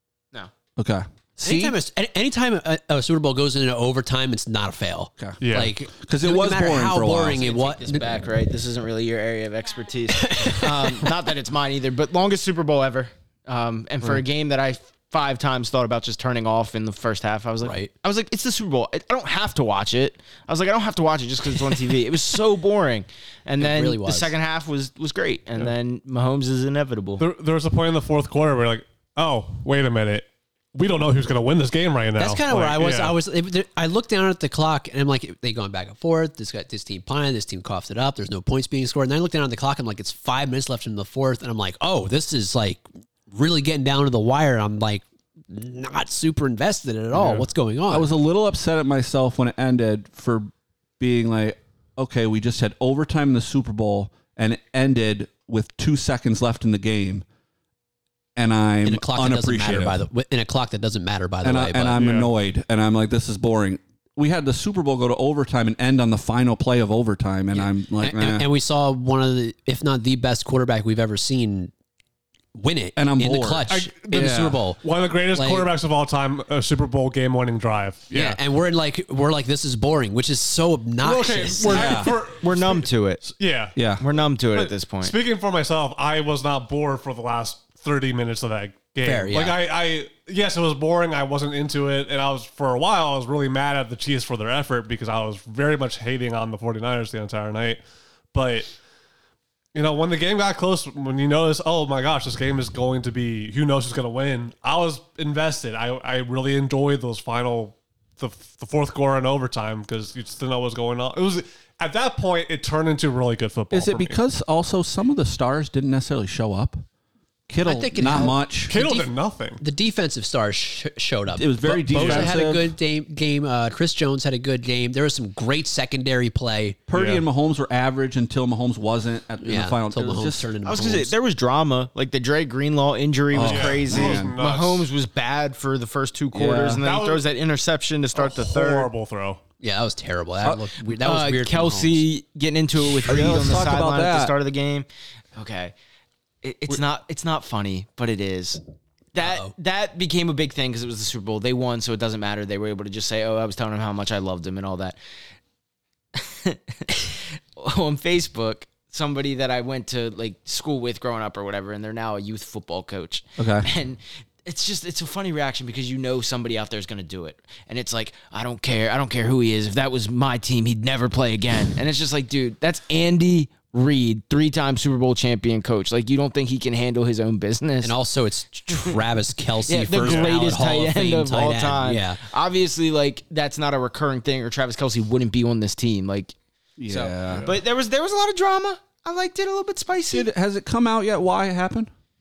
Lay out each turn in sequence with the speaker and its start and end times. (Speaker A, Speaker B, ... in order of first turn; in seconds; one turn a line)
Speaker A: 0.8-1.8
Speaker B: 1.4-8.1
Speaker C: 5.4-5.8
Speaker A: 6.0-7.5
Speaker D: 7.3-27.2
Speaker B: 10.2-11.0
Speaker B: 17.6-17.9
Speaker B: 23.6-24.3
Speaker C: 27.2-33.2
Speaker B: 32.1-48.1
Speaker C: 47.1-47.5
Speaker A: 47.9-57.2
Speaker A: 58.4-60.0
Speaker B: 58.8-62.0
Speaker A: 61.4-68.5
Speaker C: 62.0-62.3
Speaker B: 67.5-71.7
Speaker B: 72.5-74.8
Speaker A: 73.0-74.6
Speaker C: 73.7-78.4
Speaker B: 75.3-75.7
Speaker B: 78.1-82.1
Speaker C: 81.0-83.8
Speaker A: 81.7-82.1
Speaker D: 81.8-83.3
Speaker A: 83.8-84.0
Speaker D: 84.0-85.2
Speaker C: 84.5-97.8
Speaker B: 89.0-89.6
Speaker C: 98.3-98.7
Speaker C: 99.7-114.2
Speaker A: 113.7-116.8
Speaker A: 117.5-118.7
Speaker B: 117.6-126.8
Speaker C: 118.7-119.6
Speaker A: 121.4-122.7
Speaker C: 121.9-122.4
Speaker A: 126.9-130.5
Speaker C: 126.9-127.2
Speaker B: 129.4-131.1
Speaker D: 130.6-138.9
Speaker A: 133.3-134.3
Speaker C: 133.4-134.9
Speaker A: 136.3-136.8
Speaker C: 136.8-137.2
Speaker C: 138.2-139.4
Speaker B: 139.6-142.0
Speaker D: 140.9-145.7
Speaker A: 143.0-144.3
Speaker D: 146.4-148.6
Speaker D: 149.1-155.0
Speaker B: 149.2-149.5
Speaker D: 156.2-178.0
Speaker A: 163.4-163.7
Speaker B: 177.8-182.2
Speaker D: 178.7-179.0
Speaker D: 179.7-186.3
Speaker C: 180.0-180.4
Speaker A: 186.8-187.5
Speaker D: 186.9-190.3
Speaker A: 190.1-191.9